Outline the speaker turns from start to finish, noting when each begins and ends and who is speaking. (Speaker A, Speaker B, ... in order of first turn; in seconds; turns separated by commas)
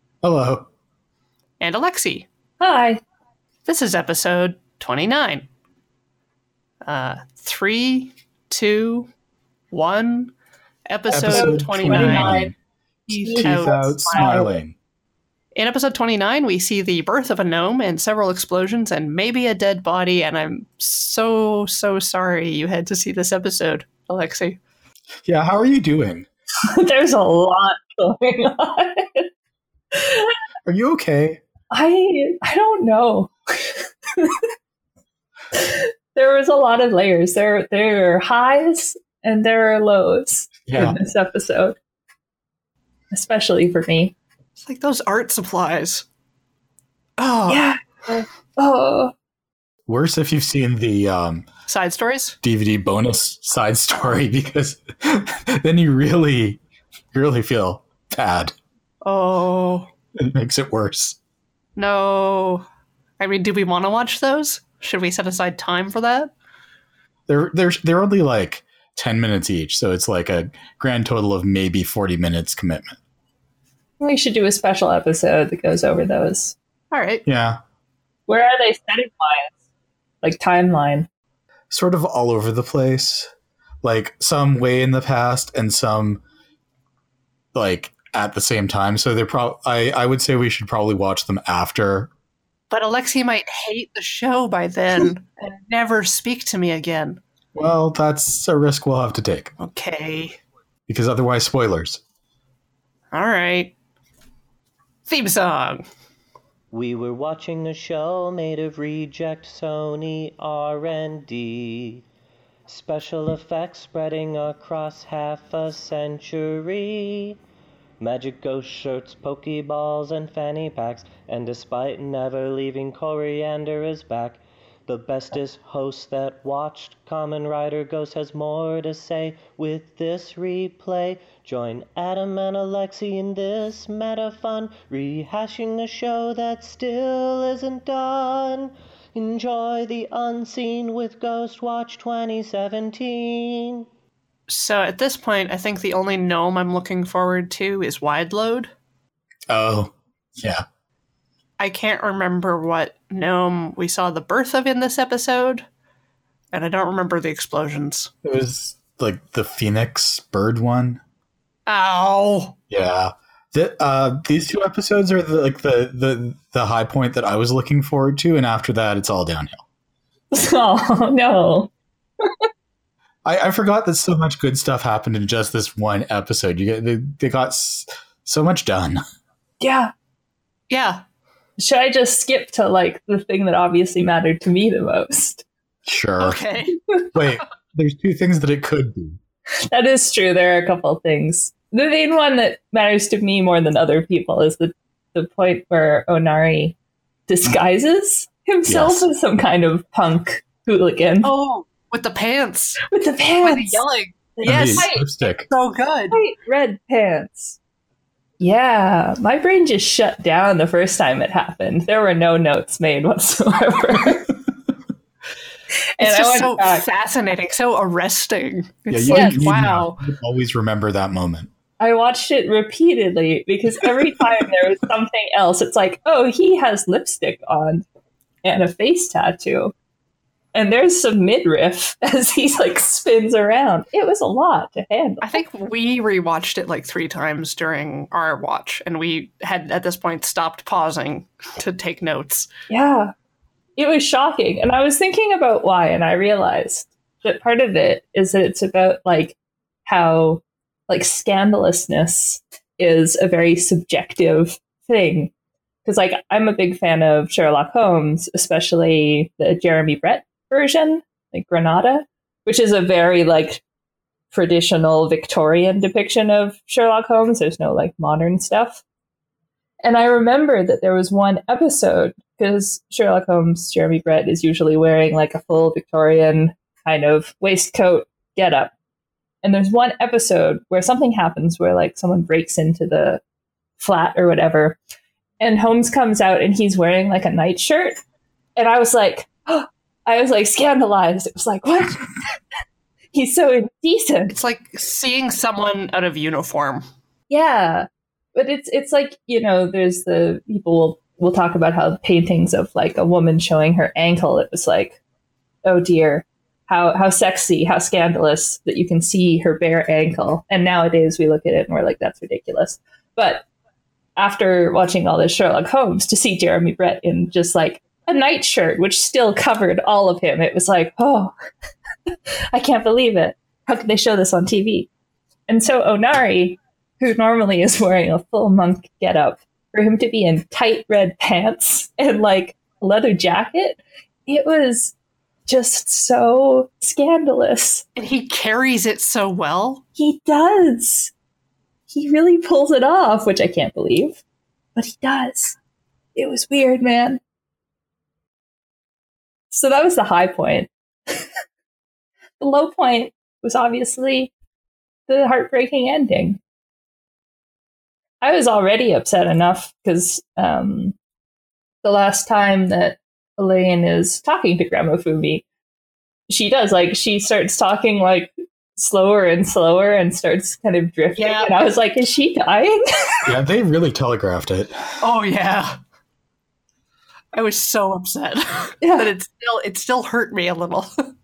Speaker A: 0.2-0.7, Speaker B: 1.6-2.3, Speaker C: 2.6-3.0, Speaker B: 3.6-5.5, Speaker B: 6.8-9.1, Speaker B: 9.7-10.3, Speaker B: 10.9-12.4, Speaker A: 11.1-12.5, Speaker C: 11.2-12.5, Speaker B: 13.1-14.3, Speaker C: 13.1-14.5, Speaker A: 13.3-14.7, Speaker B: 15.5-24.6, Speaker A: 25.2-26.2, Speaker C: 26.6-29.3, Speaker C: 29.9-30.3, Speaker A: 30.6-31.4, Speaker C: 31.7-34.4, Speaker C: 35.5-41.8, Speaker A: 40.7-41.0, Speaker C: 43.1-44.1, Speaker B: 44.6-46.0, Speaker B: 47.2-47.7, Speaker C: 47.5-49.1, Speaker A: 49.9-51.5, Speaker B: 51.7-52.4, Speaker A: 52.4-56.6, Speaker A: 57.1-58.5, Speaker B: 59.0-59.9, Speaker A: 60.1-61.2, Speaker B: 61.8-62.6, Speaker B: 63.2-66.3, Speaker A: 67.3-73.0, Speaker C: 74.0-76.5, Speaker B: 76.9-77.2, Speaker A: 77.2-77.6, Speaker C: 78.3-79.5, Speaker C: 80.2-81.1, Speaker A: 81.7-83.3, Speaker A: 83.8-86.2, Speaker A: 87.5-92.1, Speaker B: 92.7-97.2, Speaker A: 97.5-99.5, Speaker B: 99.6-100.4, Speaker A: 100.9-102.0, Speaker B: 103.1-103.7, Speaker B: 105.0-105.8, Speaker D: 106.7-112.0, Speaker D: 112.7-117.4, Speaker D: 118.0-143.9, Speaker B: 144.5-148.7, Speaker A: 149.5-150.6, Speaker B: 151.6-155.6, Speaker B: 156.5-158.1, Speaker A: 158.2-161.0, Speaker B: 161.7-162.5, Speaker A: 162.7-169.6, Speaker C: 170.3-172.4, Speaker A: 173.2-179.0, Speaker C: 179.6-179.9, Speaker B: 180.7-181.0, Speaker C: 181.6-185.4, Speaker A: 185.8-186.4, Speaker B: 186.2-186.8, Speaker A: 187.1-189.2, Speaker C: 189.7-196.8, Speaker C: 197.3-201.3, Speaker A: 198.7-199.1, Speaker B: 201.2-202.8, Speaker C: 202.9-203.8, Speaker B: 203.4-205.0, Speaker C: 204.4-205.0, Speaker A: 204.4-205.5, Speaker B: 205.5-206.2, Speaker C: 206.1-207.6, Speaker C: 208.4-214.3, Speaker C: 216.0-216.8, Speaker B: 216.0-220.0, Speaker A: 218.9-221.5, Speaker C: 219.1-219.5, Speaker C: 221.8-227.8, Speaker C: 228.4-229.7, Speaker C: 230.5-235.4, Speaker B: 235.2-242.5, Speaker C: 242.7-243.1, Speaker C: 243.8-255.3, Speaker C: 255.8-263.6, Speaker C: 264.3-268.8, Speaker C: 269.8-278.7, Speaker C: 279.4-283.2, Speaker C: 283.8-284.8, Speaker C: 285.4-288.0, Speaker C: 288.6-292.2, Speaker C: 293.1-294.3, Speaker B: 294.3-296.8, Speaker C: 297.3-305.0, Speaker C: 305.6-313.4, Speaker C: 314.1-321.3, Speaker C: 322.1-324.9, Speaker C: 325.5-334.9, Speaker C: 335.5-337.9, Speaker B: 337.9-339.8, Speaker C: 339.9-341.1, Speaker C: 341.9-344.2, Speaker C: 344.8-345.6, Speaker C: 346.1-347.2, Speaker C: 349.5-351.2, Speaker C: 352.4-354.3, Speaker C: 355.1-356.4, Speaker C: 358.2-360.9, Speaker C: 361.8-365.4, Speaker C: 366.3-373.3, Speaker B: 371.1-371.5, Speaker A: 373.2-374.7, Speaker B: 375.0-375.8, Speaker B: 377.3-380.9, Speaker C: 378.8-379.1